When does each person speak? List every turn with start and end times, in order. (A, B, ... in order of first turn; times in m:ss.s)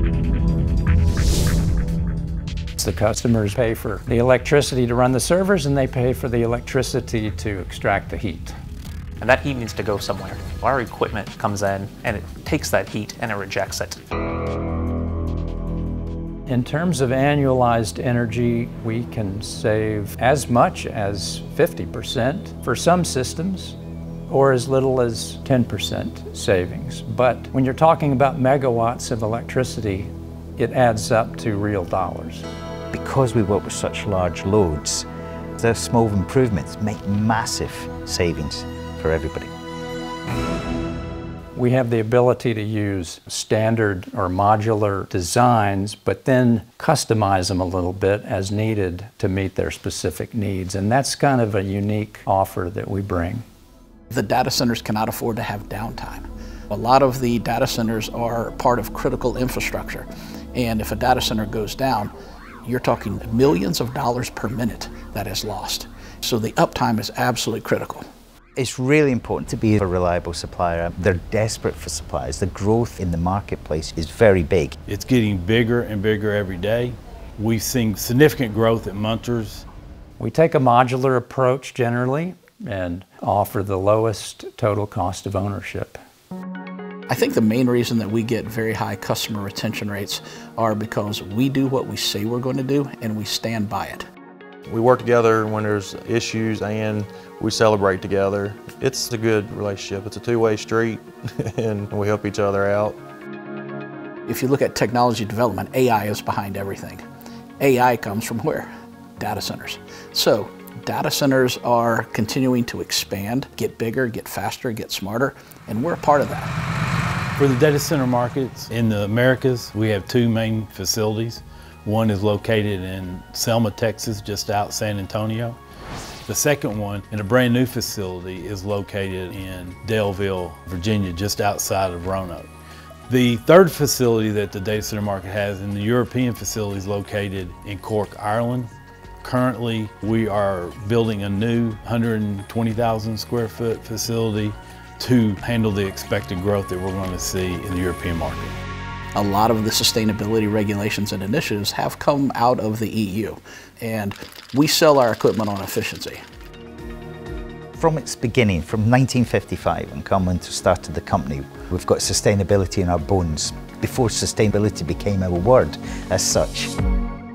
0:02.8-0:08.6 A
0:09.2-0:14.0 B
0:16.5-0:23.8 A
0:24.3-0:32.4 A
0:32.9-0:35.0 C
0:35.6-0:39.5 C
0:41.6-0:53.4 A
0:54.1-1:02.1 D
1:02.6-1:08.0 D
1:08.6-1:14.8 C
1:14.9-1:19.6 E
1:20.2-1:26.0 A
1:27.1-1:34.1 D
1:34.7-1:43.0 F
1:44.3-1:47.0 D
1:47.6-1:56.5 D
1:57.4-2:05.6 E
2:06.3-2:12.5 E
2:13.1-2:18.7 E
2:19.2-2:28.6 E
2:29.2-2:36.2 D
2:37.8-2:46.7 C